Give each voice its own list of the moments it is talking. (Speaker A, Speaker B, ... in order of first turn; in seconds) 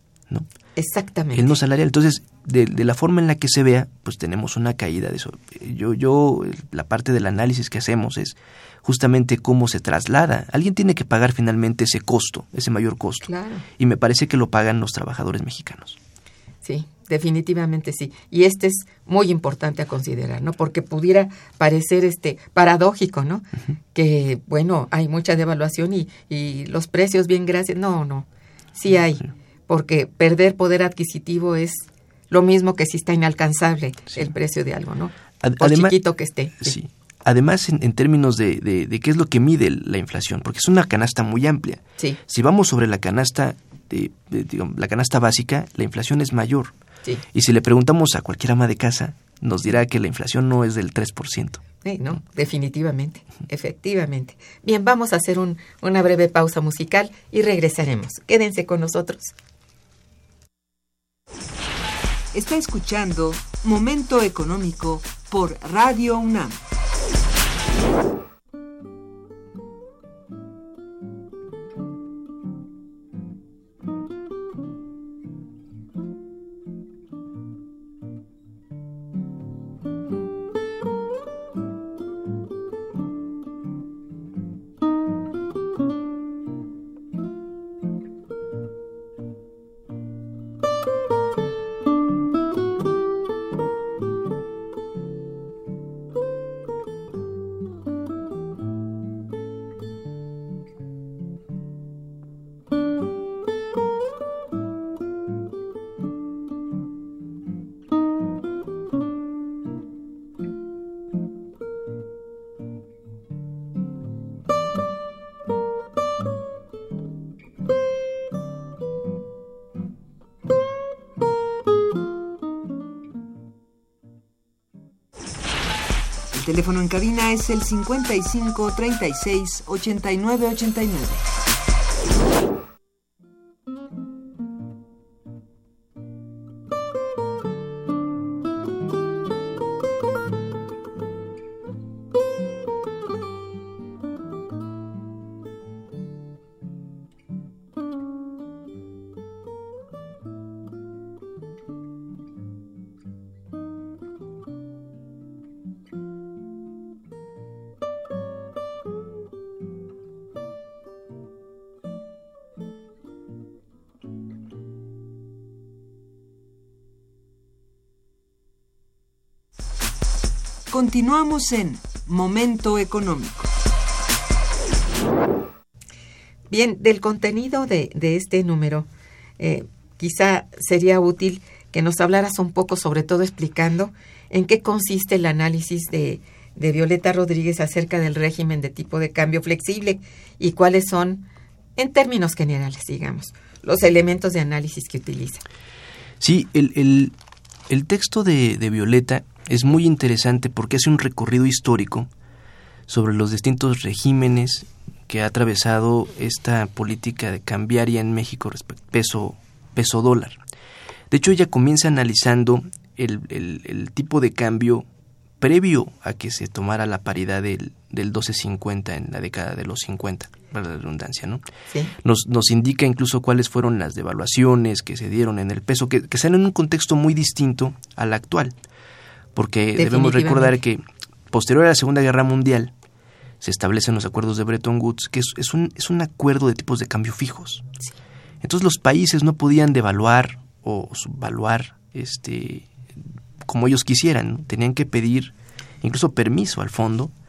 Speaker A: 0.8-1.5, 13.2-13.7, 16.6-36.8, 51.8-59.3, 176.5-178.9, 179.4-195.4, 229.8-230.6
Speaker B: 1.3-16.0, 35.4-36.0, 36.6-46.7, 47.3-51.6, 196.2-197.1, 197.7-202.1, 202.9-210.4, 211.1-214.8, 215.4-221.4, 222.0-228.6, 229.3-232.7, 233.4-237.7, 238.4-242.7, 243.4-247.1
Speaker C: 62.3-66.6, 126.3-131.2, 170.7-173.5